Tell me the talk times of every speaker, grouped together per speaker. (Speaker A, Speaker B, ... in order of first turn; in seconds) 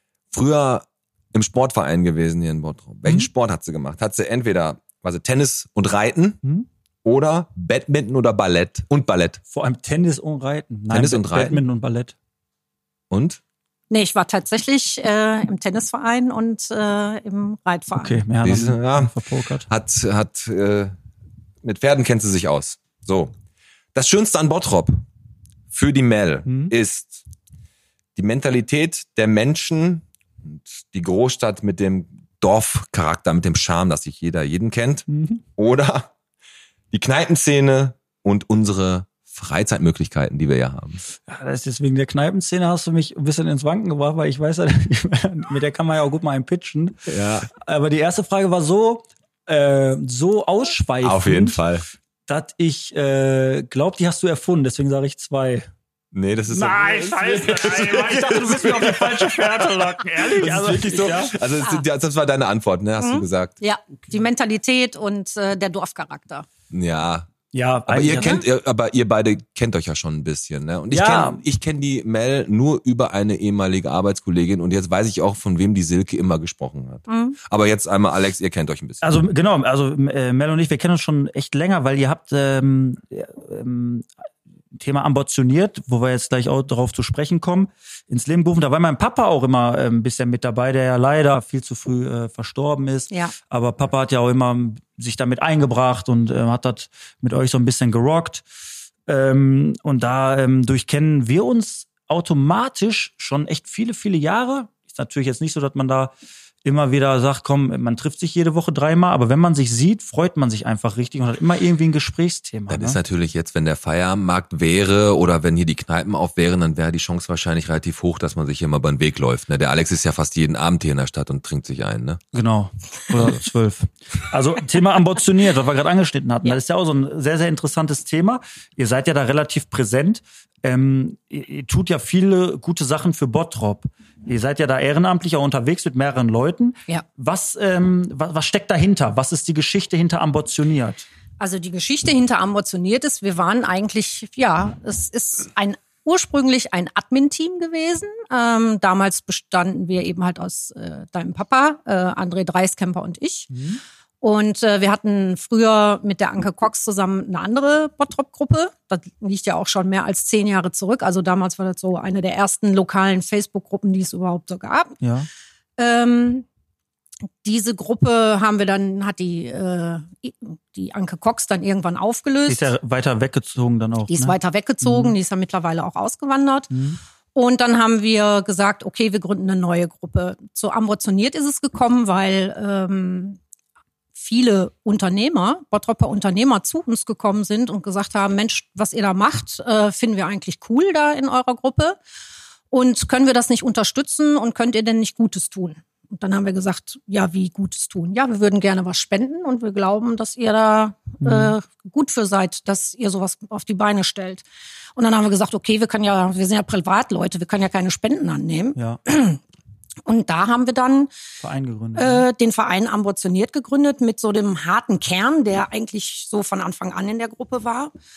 Speaker A: 0.3-6.4, 7.0-9.4, 10.9-11.6, 13.1-13.4, 18.4-19.1, 19.7-20.9, 21.6-23.3, 23.9-25.0, 25.7-27.2, 28.1-36.1, 36.9-41.0, 47.1-47.5, 51.0-51.9, 56.1-63.5, 66.7-67.3, 67.9-79.1, 112.7-122.2
Speaker B: 9.5-12.1, 18.0-19.7, 26.5-26.7, 35.1-35.4, 41.2-47.0, 47.5-51.6, 52.3-55.7, 56.5-61.3, 67.5-68.4, 70.9-71.4, 79.0-84.1, 84.8-98.4, 99.1-106.1, 106.6-113.0, 122.3-141.1, 153.5-153.8, 165.0-165.3, 172.5-175.1, 176.7-177.0, 201.2-201.5, 211.4-212.2
Speaker C: 13.9-18.2, 61.5-61.8, 63.0-66.5, 77.1-77.4, 141.4-153.5, 154.2-165.0, 165.8-166.4, 167.4-172.7, 174.1-176.7, 177.3-183.4, 184.2-192.0, 192.7-204.4, 204.9-209.4, 210.1-211.1, 211.9-217.9